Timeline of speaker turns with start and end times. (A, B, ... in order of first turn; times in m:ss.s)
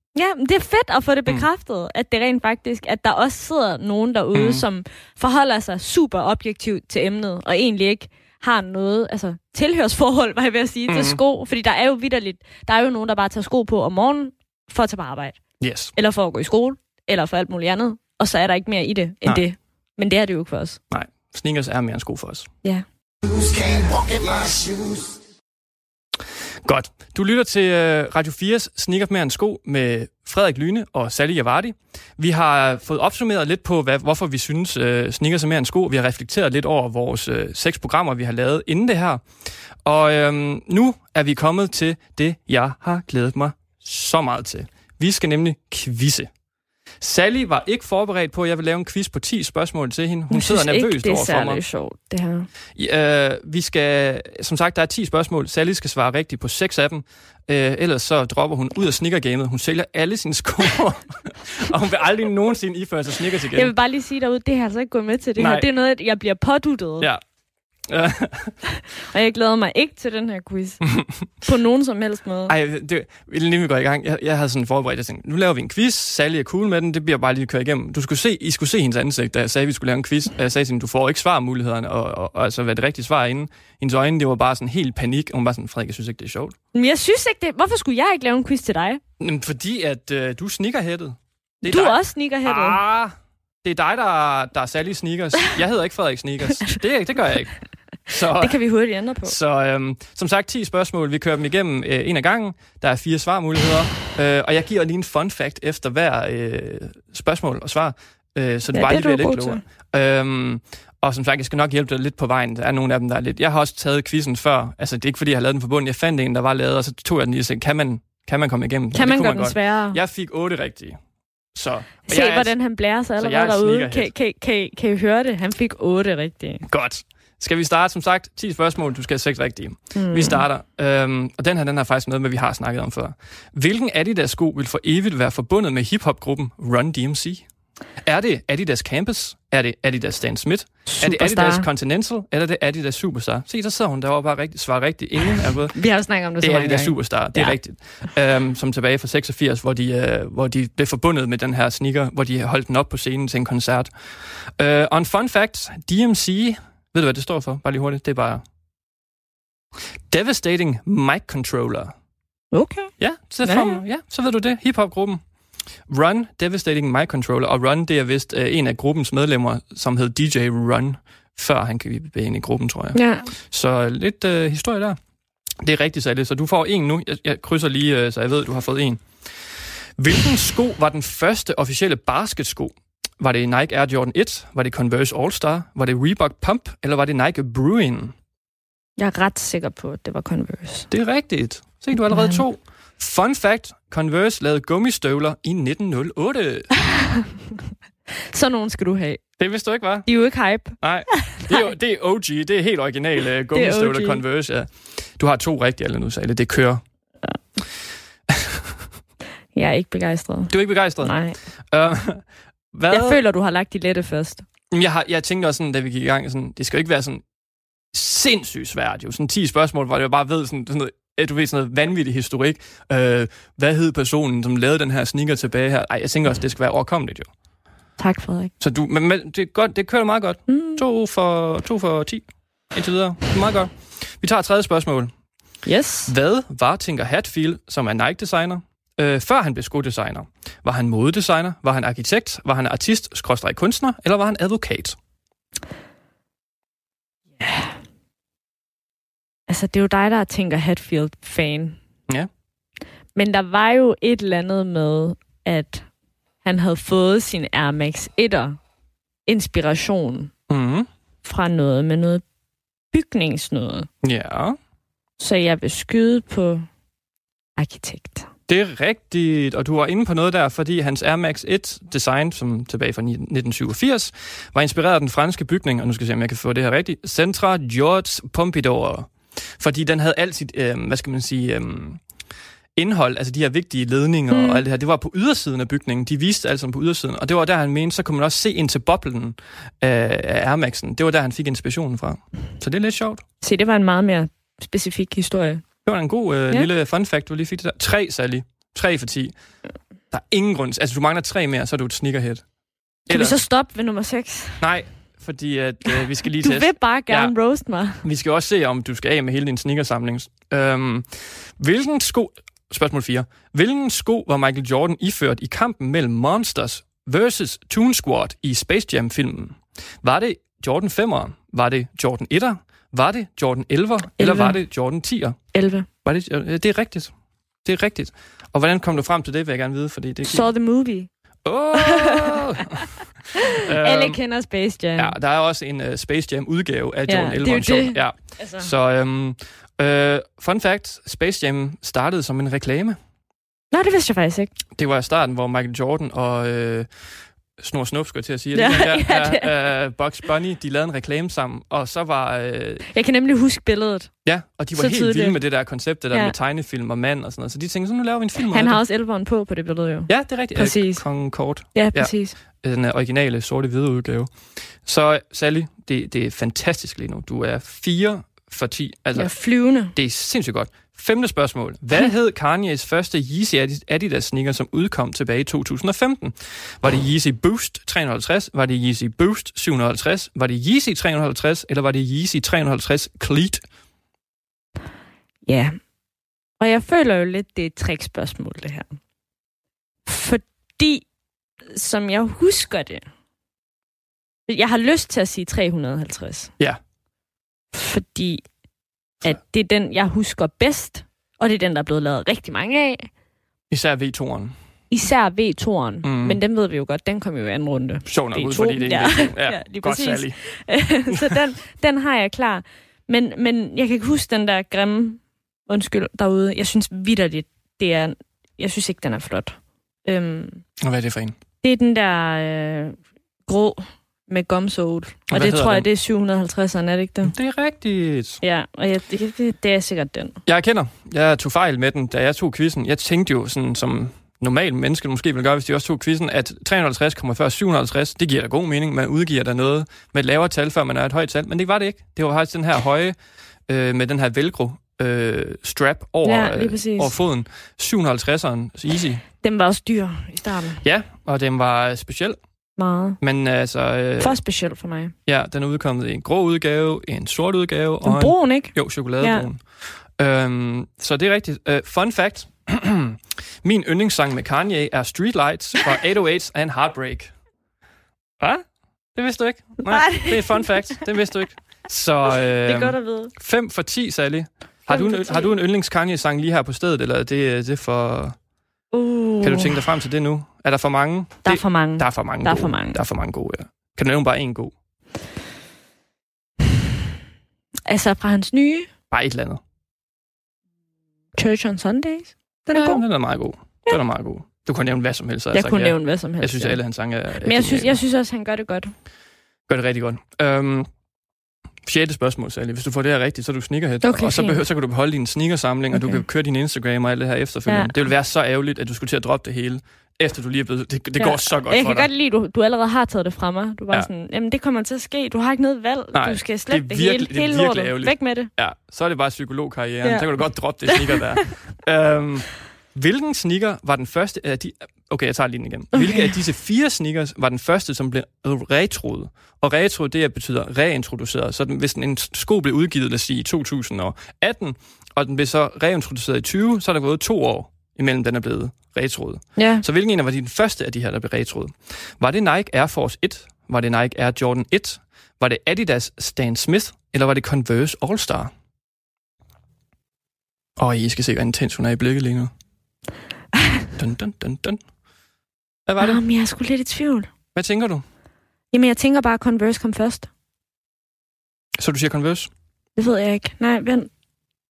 0:00.1-0:15.4 A
0:04.3-0:04.6 B
0:10.9-0:11.2 B
0:15.6-0:15.9 B
0:15.9-0:20.8 A
0:20.9-0:22.5 B
0:23.2-0:25.2 C
0:26.6-0:39.2 B
0:39.8-0:46.3 B
0:47.0-0:51.6 B
0:50.3-0:52.5 A
0:52.8-1:03.7 B
1:03.5-1:07.1 A
1:05.4-1:05.7 B
1:07.9-1:08.6 B
1:08.7-1:10.9 A
1:10.9-1:11.2 B
1:11.4-1:12.5 A
1:12.5-1:26.5 B
1:26.7-1:29.0 A
1:29.2-1:37.5 B
1:31.6-1:32.8 A
1:38.1-1:38.6 B
1:38.3-1:39.4 A
1:39.2-2:01.0 B
1:48.7-1:49.6 A
1:58.9-2:00.0 A
2:01.5-2:02.5 B
2:02.0-2:06.6 A
2:03.2-2:04.1 B
2:06.7-2:17.4 B
2:09.9-2:10.4 A
2:18.0-2:25.8 B
2:20.8-2:21.6 A
2:25.7-2:27.6 A
2:26.4-2:38.4 B
2:40.1-2:41.9 B
2:42.5-2:42.9 A
2:43.0-2:45.2 B
2:43.4-2:43.8 A
2:45.9-2:55.0 B
2:52.9-2:53.3 A
2:55.6-3:08.1 B
3:09.0-3:10.9 A
3:10.9-3:16.7 B
3:12.1-3:12.4 A
3:18.3-3:19.2 A
3:19.4-3:20.1 B
3:20.0-3:21.7 A
3:20.8-3:26.8 B
3:23.5-3:24.2 A
3:28.3-3:28.6 B
3:29.5-3:31.4 A
3:30.5-3:31.2 B
3:31.7-3:33.2 B
3:32.9-3:34.4 A
3:34.7-3:37.2 B
3:37.9-3:47.3 B
3:48.0-3:48.5 A
3:48.6-3:55.1 B
3:50.5-3:50.8 A
3:55.6-3:56.1 A
3:56.1-4:05.0 B
4:07.4-4:07.8 A
4:09.5-4:11.8 A
4:13.2-4:15.9 A
4:16.4-4:18.6 A
4:19.2-4:20.3 A
4:20.5-4:20.9 B
4:21.2-4:22.2 A
4:22.9-4:23.9 A
4:24.0-4:24.6 B
4:25.2-4:26.7 A
4:27.6-4:28.3 A
4:28.5-4:42.0 B
4:42.8-4:53.2 B
4:44.3-4:44.6 A
4:53.4-4:55.6 A
4:55.8-4:59.3 B
5:00.1-5:02.4 B
5:03.1-5:03.4 B
5:03.1-5:04.6 A
5:04.6-5:07.3 B
5:06.4-5:08.0 A
5:08.0-5:25.4 B
5:24.2-5:24.6 A
5:25.5-5:25.9 A
5:26.0-5:27.1 B
5:27.6-5:30.5 B
5:30.2-5:31.1 A
5:31.4-5:32.9 B
5:31.7-5:35.1 A
5:33.5-5:34.2 B
5:35.0-5:43.0 B
5:37.1-5:38.7 A
5:43.7-5:44.5 A
5:44.8-5:46.9 B
5:47.6-5:52.8 B
5:48.5-5:49.7 A
5:52.9-5:54.1 A
5:54.2-5:58.8 B
5:54.7-5:55.4 A
5:58.5-6:01.0 A
6:00.1-6:04.3 B
6:01.7-6:02.3 A
6:04.8-6:09.3 B
6:09.2-6:09.9 A
6:09.9-6:23.6 B
6:25.4-6:25.8 A
6:26.6-6:29.0 A
6:30.0-6:31.0 A
6:31.7-6:33.0 A
6:34.5-6:36.5 A
6:37.7-6:38.4 A
6:39.2-6:43.1 A
6:43.7-6:44.5 B
6:44.9-7:00.6 A
6:46.0-6:46.4 B
6:48.1-6:50.4 B
7:00.8-7:01.3 B
7:01.6-7:07.3 A
7:05.3-7:05.9 B
7:07.2-7:08.4 B
7:08.4-7:10.4 A
7:10.4-7:23.1 B
7:23.7-7:29.2 B
7:26.2-7:27.1 A
7:29.4-7:30.8 A
7:30.8-7:32.4 B
7:32.8-7:33.2 A
7:33.2-7:34.4 B
7:34.2-7:35.1 A
7:35.2-7:47.3 B
7:38.0-7:39.5 A
7:48.4-7:58.4 B
7:49.8-7:50.7 A
7:52.6-7:53.3 A
7:54.9-7:55.5 A
7:58.9-7:59.8 A
7:59.4-8:04.7 B
8:01.4-8:03.0 A
8:07.9-8:08.9 A
8:09.1-8:09.6 B
8:11.4-8:13.0 A
8:12.7-8:18.0 B
8:15.5-8:16.8 A
8:17.4-8:18.9 A
8:19.7-8:20.9 B
8:21.8-8:32.1 B
8:24.0-8:24.6 A
8:25.9-8:26.2 A
8:27.7-8:27.9 A
8:31.2-8:38.5 A
8:36.1-9:08.5 B
8:40.9-8:41.6 A
8:45.9-8:46.3 A
8:59.6-8:59.8 A
9:10.8-9:12.5 B
9:13.5-9:13.8 A
9:14.0-9:14.8 B
9:15.9-9:16.2 B
9:16.0-9:17.3 A
9:17.5-9:18.0 B
9:18.7-9:20.3 A
9:21.8-9:22.5 B
9:23.0-9:24.1 A